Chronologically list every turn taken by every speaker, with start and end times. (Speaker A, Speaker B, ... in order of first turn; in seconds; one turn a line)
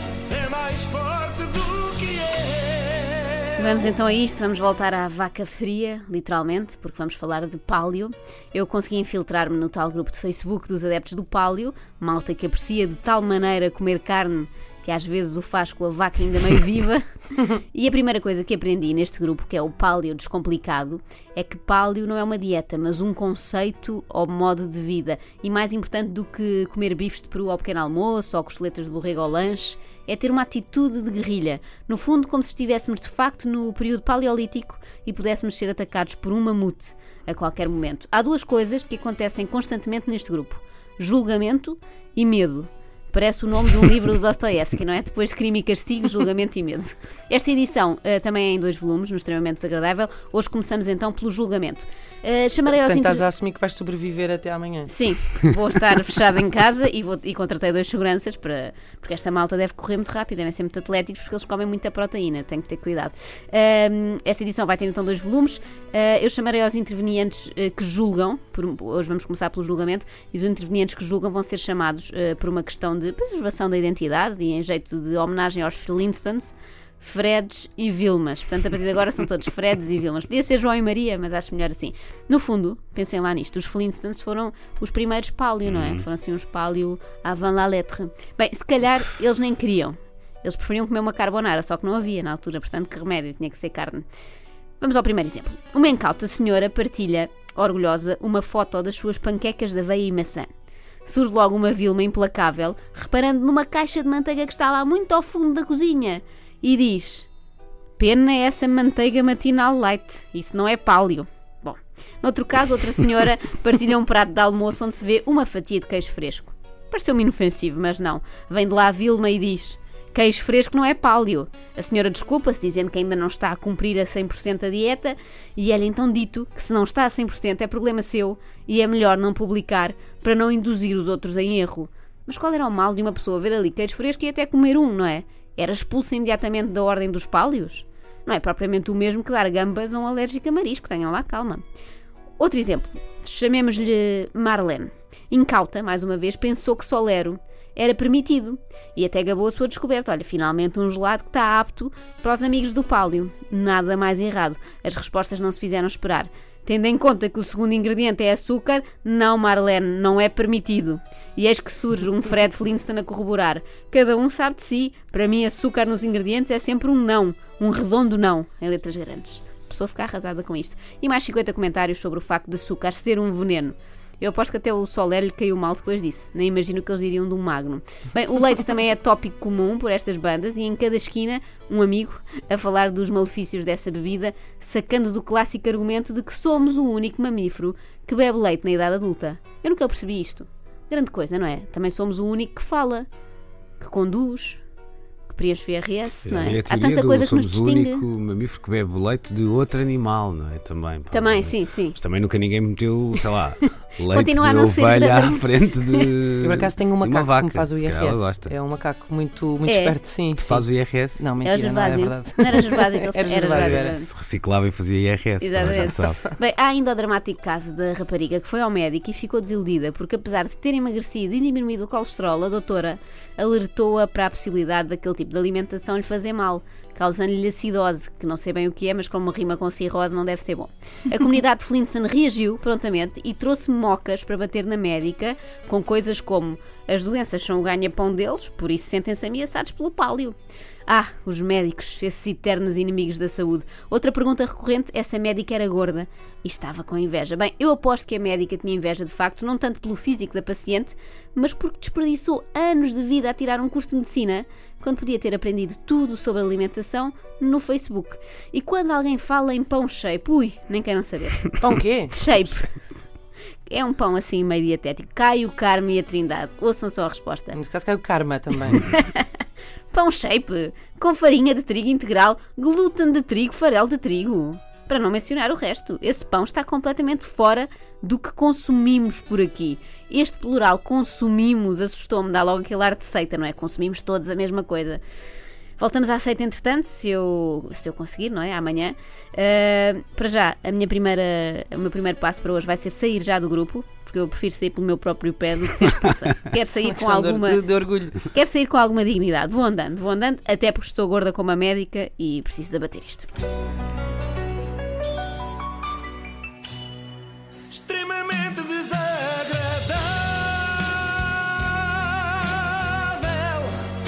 Speaker A: 0.3-3.1
Speaker B: 3.6-53.3
Speaker C: 52.7-54.9
Speaker B: 54.9-94.0
Speaker D: 85.7-86.0
Speaker B: 94.8-100.5
Speaker B: 101.0-107.3
Speaker B: 108.0-141.6
Speaker B: 142.4-193.1
Speaker B: 193.8-194.6
Speaker B: 195.3-198.0
Speaker D: 196.2-208.6
Speaker B: 201.1-202.0
Speaker B: 204.1-206.1
Speaker C: 206.4-214.0
Speaker B: 209.7-209.9
Speaker D: 210.3-211.3
Speaker B: 211.4-214.1
Speaker D: 213.5-216.2
Speaker B: 215.4-262.7
Speaker C: 261.6-262.1
Speaker B: 263.7-267.6
Speaker C: 267.5-268.8
Speaker B: 268.8-269.3
Speaker B: 269.9-285.0
Speaker B: 285.8-297.6
Speaker C: 296.8-298.2
Speaker B: 298.2-303.3
Speaker A: 307.7-310.3
Speaker C: 310.0-313.9
Speaker A: 313.0-313.7